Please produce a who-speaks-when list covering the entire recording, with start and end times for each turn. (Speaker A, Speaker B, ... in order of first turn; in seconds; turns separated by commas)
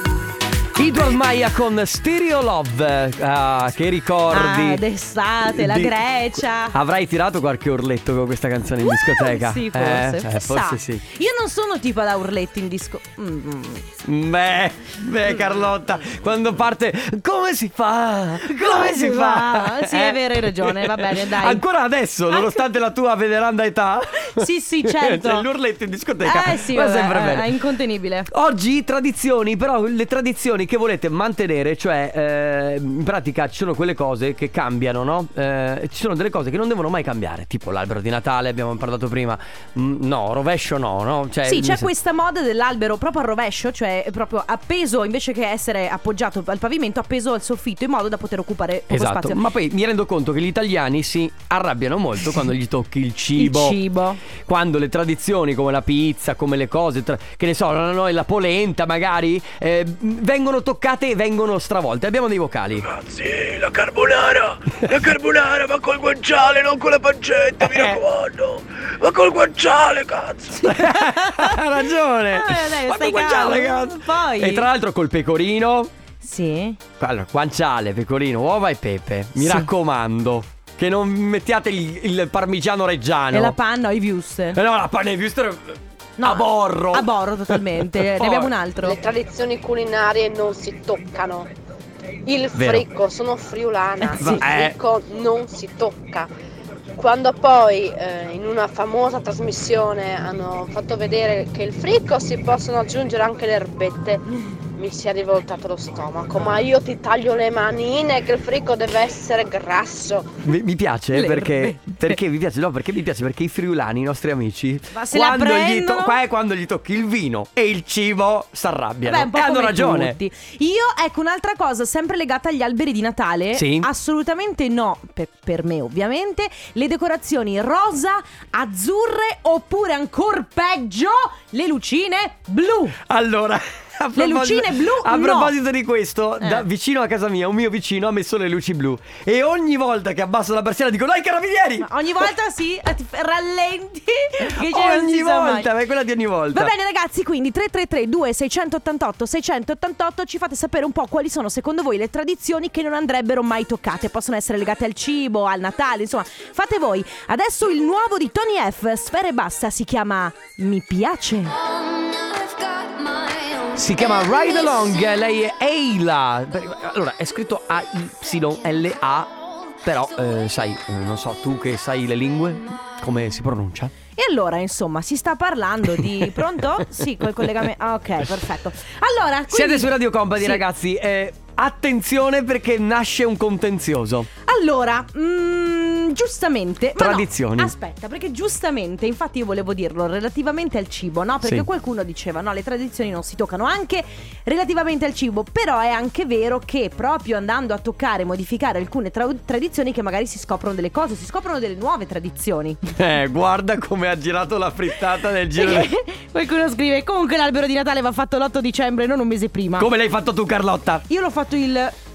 Speaker A: 0.7-4.8, Speaker B: 4.3-6.8, Speaker A: 5.5-5.9, Speaker A: 6.7-11.0, Speaker B: 8.8-13.9, Speaker A: 14.0-27.6, Speaker B: 18.4-21.6, Speaker B: 22.3-22.6, Speaker B: 24.4-25.5, Speaker B: 26.2-28.3, Speaker A: 28.3-41.9, Speaker B: 41.5-49.4, Speaker A: 48.9-53.8, Speaker B: 53.4-54.2, Speaker A: 54.3-63.0, Speaker C: 63.1-68.5, Speaker A: 64.7-65.0, Speaker A: 67.6-68.0, Speaker A: 70.5-75.9, Speaker B: 70.6-71.7, Speaker B: 72.3-74.7, Speaker B: 76.2-76.8, Speaker A: 77.0-83.5, Speaker B: 79.4-79.7, Speaker B: 83.3-84.6, Speaker A: 84.5-88.5, Speaker B: 86.2-89.0, Speaker D: 88.8-91.5, Speaker D: 92.2-96.3, Speaker A: 92.5-92.8, Speaker B: 94.1-94.4, Speaker A: 94.2-94.8, Speaker D: 97.0-110.4, Speaker A: 110.4-120.2, Speaker B: 111.1-112.2, Speaker B: 114.9-116.2, Speaker B: 119.0-132.9, Speaker A: 123.5-123.9, Speaker A: 133.1-141.9, Speaker B: 134.1-135.5, Speaker B: 141.8-145.7, Speaker A: 144.5-146.7, Speaker B: 146.5-161.6, Speaker A: 163.7-173.9, Speaker B: 174.2-180.6, Speaker A: 179.5-184.3, Speaker B: 184.4-202.8, Speaker A: 186.9-187.7, Speaker A: 202.9-205.9, Speaker B: 205.5-209.9, Speaker A: 209.8-211.1, Speaker B: 211.1-211.9